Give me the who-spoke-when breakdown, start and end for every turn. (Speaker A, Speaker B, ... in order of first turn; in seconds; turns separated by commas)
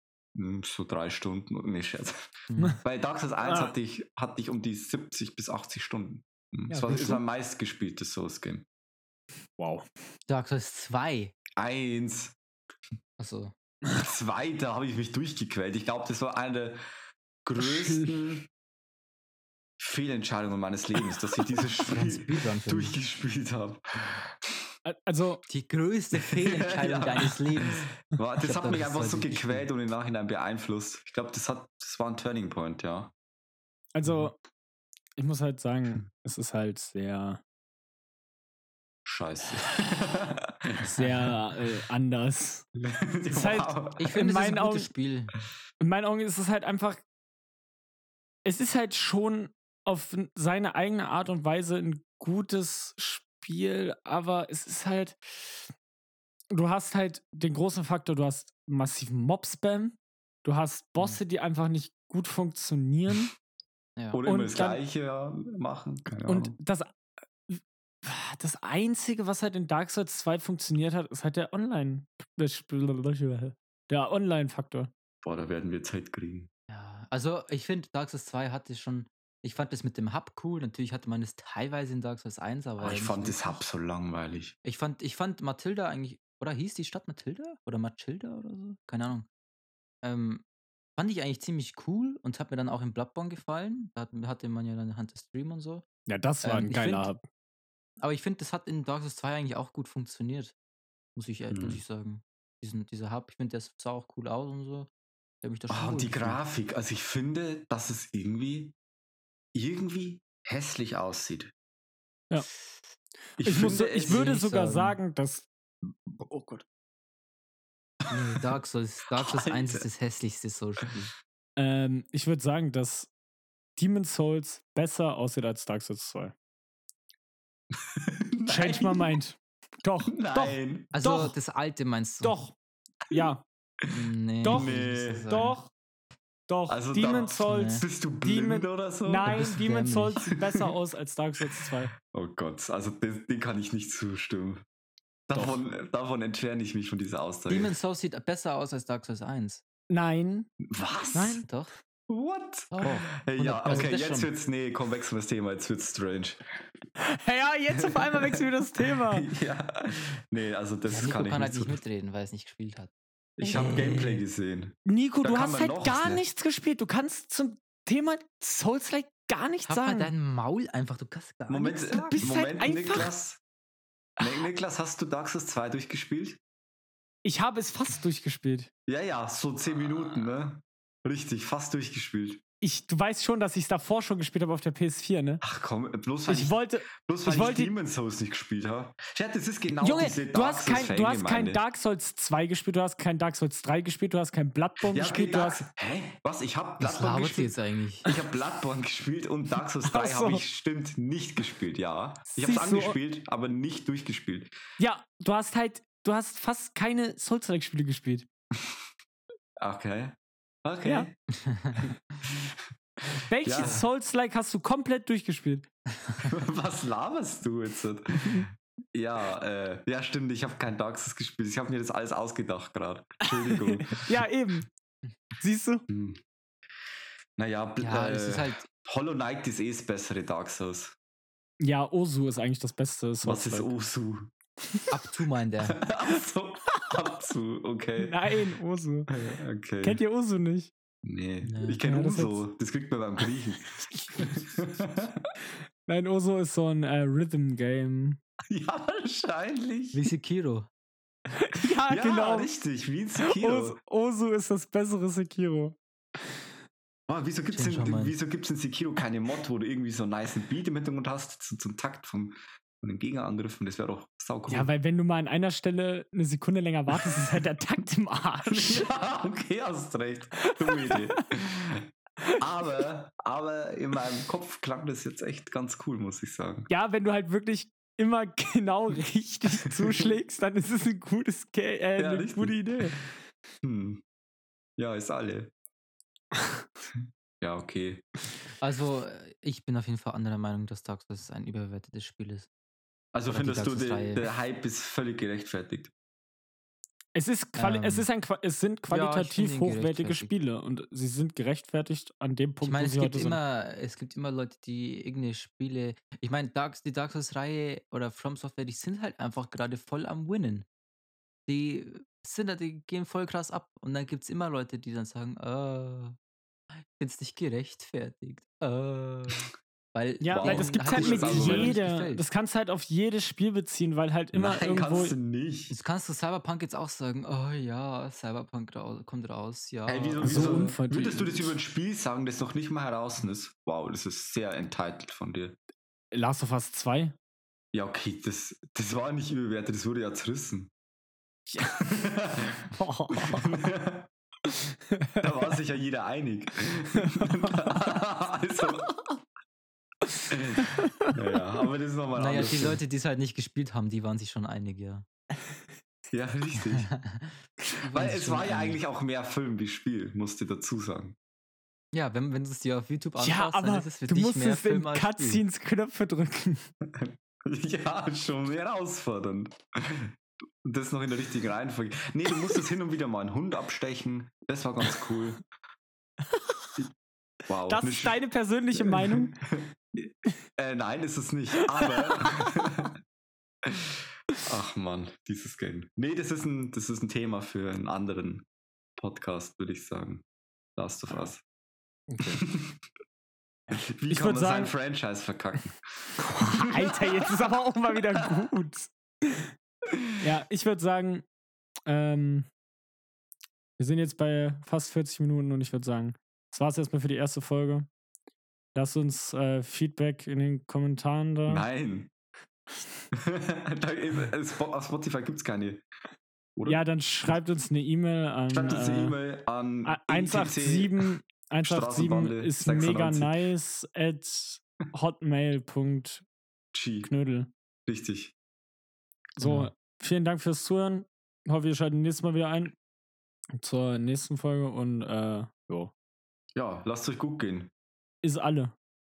Speaker A: 0.3-8.7, Speaker B: 2.5-2.8, Speaker C: 3.5-3.7, Speaker C: 6.7-7.2, Speaker C: 9.6-9.9, Speaker B: 10.3-11.3, Speaker A: 11.6-12.4, Speaker B: 13.2-13.5, Speaker A: 13.9-16.8, Speaker A: 17.4-18.5, Speaker C: 17.6-18.2, Speaker A: 19.8-24.7, Speaker B: 21.8-23.0, Speaker C: 24.9-25.4, Speaker B: 25.5-27.9, Speaker A: 26.3-33.1, Speaker B: 28.4-29.7, Speaker C: 34.0-34.4, Speaker C: 35.2-37.4, Speaker A: 39.0-41.3, Speaker B: 41.0-41.3, Speaker C: 41.0-42.7, Speaker A: 42.8-44.1, Speaker C: 43.3-44.9, Speaker B: 44.0-45.3, Speaker C: 45.8-47.0, Speaker C: 48.5-55.2, Speaker C: 56.5-63.3, Speaker A: 64.1-66.5, Speaker C: 64.3-64.8, Speaker C: 66.3-66.9, Speaker C: 67.5-74.9, Speaker A: 75.2-76.5, Speaker B: 76.7-83.6, Speaker A: 82.8-84.5, Speaker B: 84.6-89.3, Speaker B: 90.0-90.4, Speaker B: 91.0-95.8, Speaker C: 96.1-97.2, Speaker B: 96.4-97.1, Speaker B: 98.0-100.5, Speaker B: 101.2-104.9, Speaker A: 101.5-101.8, Speaker B: 105.4-106.4, Speaker A: 105.7-108.8, Speaker A: 109.5-111.5, Speaker A: 113.4-114.4, Speaker C: 113.4-115.5, Speaker B: 114.0-115.0, Speaker C: 116.2-116.6, Speaker B: 118.1-121.1, Speaker A: 119.2-119.9, Speaker C: 121.6-123.1, Speaker C: 123.8-126.3, Speaker A: 127.7-129.1, Speaker C: 128.5-131.4, Speaker A: 130.1-130.9, Speaker B: 130.9-132.4, Speaker C: 132.2-132.6, Speaker C: 133.1-133.4, Speaker B: 133.9-135.6, Speaker C: 134.4-135.7, Speaker A: 134.5-135.3, Speaker C: 136.5-141.9, Speaker A: 136.7-139.5, Speaker B: 137.4-137.8, Speaker B: 139.2-140.2, Speaker A: 140.3-140.7, Speaker A: 141.5-144.6, Speaker A: 145.3-147.7, Speaker B: 147.5-149.6, Speaker C: 149.9-150.5, Speaker A: 150.6-151.4, Speaker C: 151.1-151.4, Speaker B: 151.4-151.7, Speaker A: 152.1-156.4, Speaker B: 152.7-154.3, Speaker C: 157.0-159.3, Speaker A: 157.7-161.8, Speaker B: 160.9-162.9, Speaker A: 163.4-166.2, Speaker B: 163.5-164.2, Speaker C: 164.9-170.1, Speaker B: 169.7-172.3, Speaker A: 171.5-173.4, Speaker C: 172.1-173.1, Speaker A: 174.2-176.4, Speaker C: 177.2-178.7, Speaker A: 178.9-182.4, Speaker C: 182.6-185.4, Speaker A: 185.4-191.6, Speaker C: 186.3-187.7, Speaker C: 189.8-195.6, Speaker A: 194.8-197.5, Speaker B: 196.8-198.1, Speaker A: 198.1-204.5, Speaker C: 199.8-200.4, Speaker C: 202.4-203.0, Speaker C: 204.8-208.3, Speaker A: 209.6-211.1, Speaker C: 210.8-211.1, Speaker B: 211.3-211.8, Speaker A: 211.8-212.6, Speaker C: 213.3-215.7, Speaker A: 213.4-213.8, Speaker B: 213.6-213.8, Speaker B: 216.1-216.3, Speaker A: 216.3-224.2, Speaker C: 223.3-224.7, Speaker C: 225.4-225.8, Speaker A: 225.9-226.2, Speaker A: 227.4-230.9, Speaker B: 227.8-228.7, Speaker C: 231.6-233.7, Speaker A: 233.2-234.3, Speaker B: 234.9-235.8, Speaker A: 235.7-238.4, Speaker C: 238.0-239.2, Speaker A: 239.1-240.0, Speaker C: 239.8-240.7, Speaker A: 241.0-245.3, Speaker B: 241.4-241.8, Speaker C: 241.8-242.4, Speaker C: 245.9-248.2, Speaker A: 248.5-250.0, Speaker B: 249.9-250.7, Speaker C: 251.4-252.5, Speaker A: 251.9-253.8, Speaker C: 253.2-255.8, Speaker A: 257.1-264.7, Speaker B: 257.5-258.1, Speaker C: 264.5-268.9, Speaker A: 268.5-271.9, Speaker C: 270.4-271.1, Speaker A: 272.4-276.7, Speaker C: 276.7-283.0, Speaker A: 279.8-280.1, Speaker A: 282.0-282.9, Speaker A: 283.6-284.0, Speaker A: 284.8-285.5, Speaker A: 287.4-288.0, Speaker B: 288.6-292.5, Speaker A: 293.1-295.9, Speaker B: 293.3-294.3, Speaker C: 297.1-303.4, Speaker B: 297.6-298.1, Speaker B: 298.9-300.3, Speaker B: 302.6-310.7, Speaker B: 311.5-316.2, Speaker B: 316.7-322.2, Speaker C: 320.2-325.1, Speaker A: 320.3-321.8, Speaker A: 324.3-325.7, Speaker B: 325.7-330.8, Speaker A: 329.9-335.6, Speaker C: 330.2-331.6, Speaker C: 336.1-337.1, Speaker A: 337.7-340.7, Speaker C: 341.5-341.9, Speaker A: 341.8-344.1, Speaker C: 342.8-343.6, Speaker C: 344.5-345.2, Speaker A: 345.2-348.9, Speaker C: 347.1-347.5, Speaker A: 350.3-352.8, Speaker C: 350.6-351.1, Speaker B: 352.1-355.1, Speaker A: 356.1-356.9, Speaker B: 356.6-358.8, Speaker A: 357.9-361.1, Speaker B: 361.9-365.4, Speaker C: 363.2-366.7, Speaker A: 366.9-375.4, Speaker C: 376.3-376.8, Speaker A: 377.5-378.2, Speaker C: 377.7-379.4, Speaker A: 378.7-383.0, Speaker C: 381.9-382.5, Speaker A: 383.6-388.4, Speaker A: 389.0-390.2, Speaker A: 390.8-391.4, Speaker C: 392.1-392.4, Speaker A: 392.2-392.8, Speaker A: 393.7-397.3, Speaker C: 394.1-394.7, Speaker C: 396.2-399.5, Speaker A: 399.9-400.1, Speaker C: 400.2-401.2, Speaker C: 401.9-402.5, Speaker C: 403.8-407.9, Speaker C: 408.8-411.7, Speaker A: 411.5-412.1, Speaker A: 413.1-415.9, Speaker A: 416.6-416.8, Speaker C: 416.7-419.2, Speaker A: 418.5-421.1, Speaker C: 419.9-426.2, Speaker A: 421.6-423.4, Speaker A: 426.7-427.1, Speaker C: 427.0-427.5, Speaker A: 427.9-428.3, Speaker C: 429.4-432.8, Speaker B: 429.4-429.7, Speaker C: 433.6-435.9, Speaker A: 436.6-437.7, Speaker C: 438.2-438.7